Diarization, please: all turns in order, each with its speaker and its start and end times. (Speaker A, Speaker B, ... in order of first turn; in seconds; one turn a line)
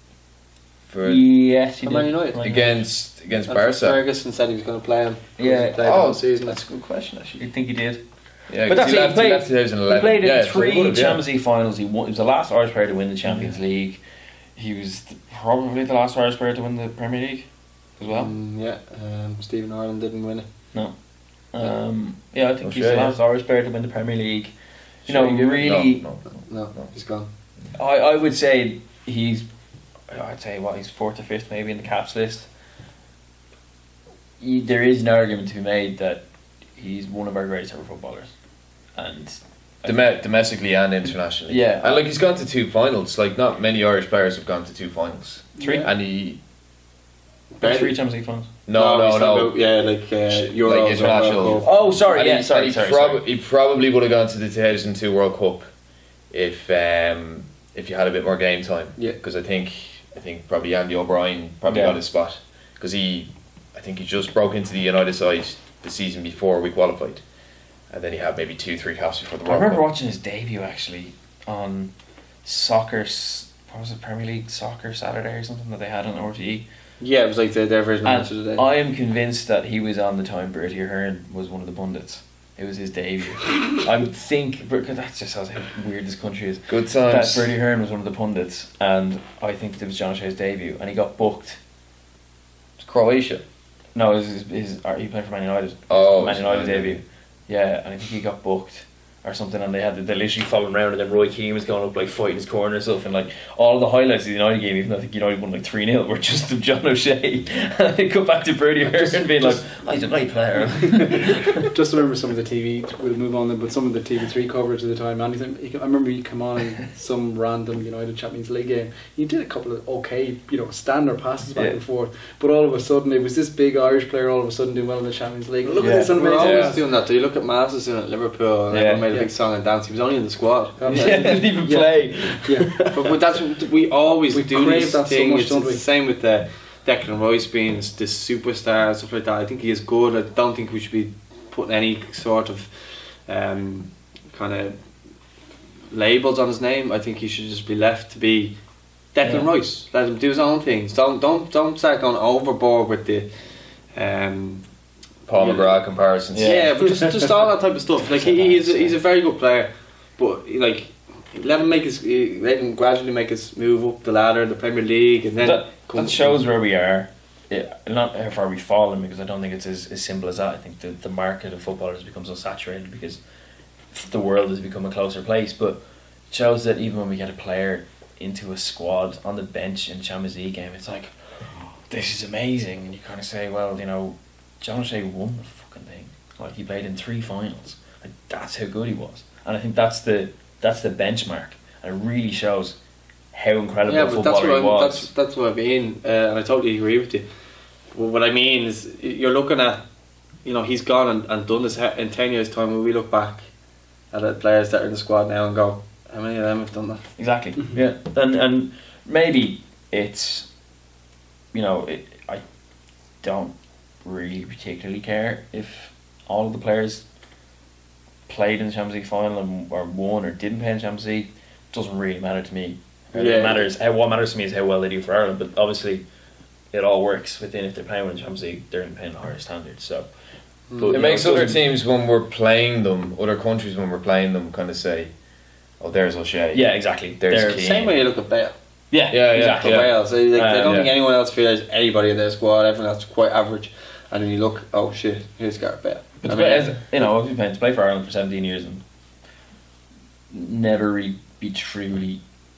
Speaker A: 0.9-1.3
Speaker B: 1.0-2.9
Speaker C: 1.8-2.6
Speaker A: 2.4-4.0
Speaker C: 3.3-6.7
Speaker B: 5.4-6.1
Speaker A: 5.8-7.5
Speaker B: 7.4-14.0
Speaker A: 8.5-11.2
Speaker B: 14.6-18.3
Speaker C: 18.1-20.6
Speaker B: 20.7-24.5
Speaker A: 22.6-23.2
Speaker B: 25.1-26.1
Speaker A: 25.1-26.9
Speaker C: 26.4-27.3
Speaker B: 27.7-29.5
Speaker B: 30.1-32.5
Speaker B: 34.4-38.4
Speaker B: 38.9-40.2
Speaker A: 39.8-46.4
Speaker B: 41.5-42.1
Speaker D: 45.6-45.9
Speaker B: 45.6-45.9
Speaker C: 47.5-48.0
Speaker B: 47.6-48.5
Speaker A: 48.7-49.6
Speaker C: 48.7-51.7
Speaker A: 50.3-55.7
Speaker B: 51.6-53.2
Speaker A: 56.3-67.2
Speaker B: 61.7-62.0
Speaker A: 67.9-69.8
Speaker B: 69.5-76.7
Speaker C: 77.0-78.6
Speaker B: 78.0-91.6
Speaker A: 86.7-87.5
Speaker A: 92.8-93.4
Speaker B: 93.9-111.6
Speaker A: 95.9-97.0
Speaker D: 110.8-126.8
Speaker B: 121.5-121.8
Speaker C: 125.6-131.5
Speaker B: 125.8-126.6
Speaker A: 126.3-126.7
Speaker B: 128.7-129.1
Speaker D: 130.8-132.9
Speaker B: 130.9-132.9
Speaker C: 132.9-144.8
Speaker D: 134.3-135.8
Speaker C: 145.9-148.6
Speaker C: 149.1-153.3
Speaker B: 149.2-149.5
Speaker C: 153.9-154.6
Speaker C: 155.3-155.8
Speaker A: 155.3-156.7
Speaker B: 156.3-156.7
Speaker C: 156.4-166.4
Speaker B: 158.2-158.9
Speaker B: 165.4-173.2
Speaker B: 173.9-192.8
Speaker B: 193.3-195.1
Speaker C: 193.9-197.2
Speaker C: 197.9-199.8
Speaker C: 200.4-203.5
Speaker C: 204.1-207.1
Speaker B: 207.2-210.5
Speaker B: 211.5-212.4
Speaker B: 213.2-217.1
Speaker B: 218.3-226.1
Speaker C: 223.1-223.7
Speaker B: 226.7-230.2
Speaker B: 230.7-231.6
Speaker C: 230.7-231.4
Speaker A: 230.9-235.1
Speaker A: 235.8-237.9
Speaker B: 236.5-238.0
Speaker C: 237.6-238.5
Speaker B: 238.9-240.9
Speaker A: 239.1-240.1
Speaker C: 239.3-246.8
Speaker A: 240.6-240.9
Speaker B: 246.2-248.8
Speaker B: 250.3-252.2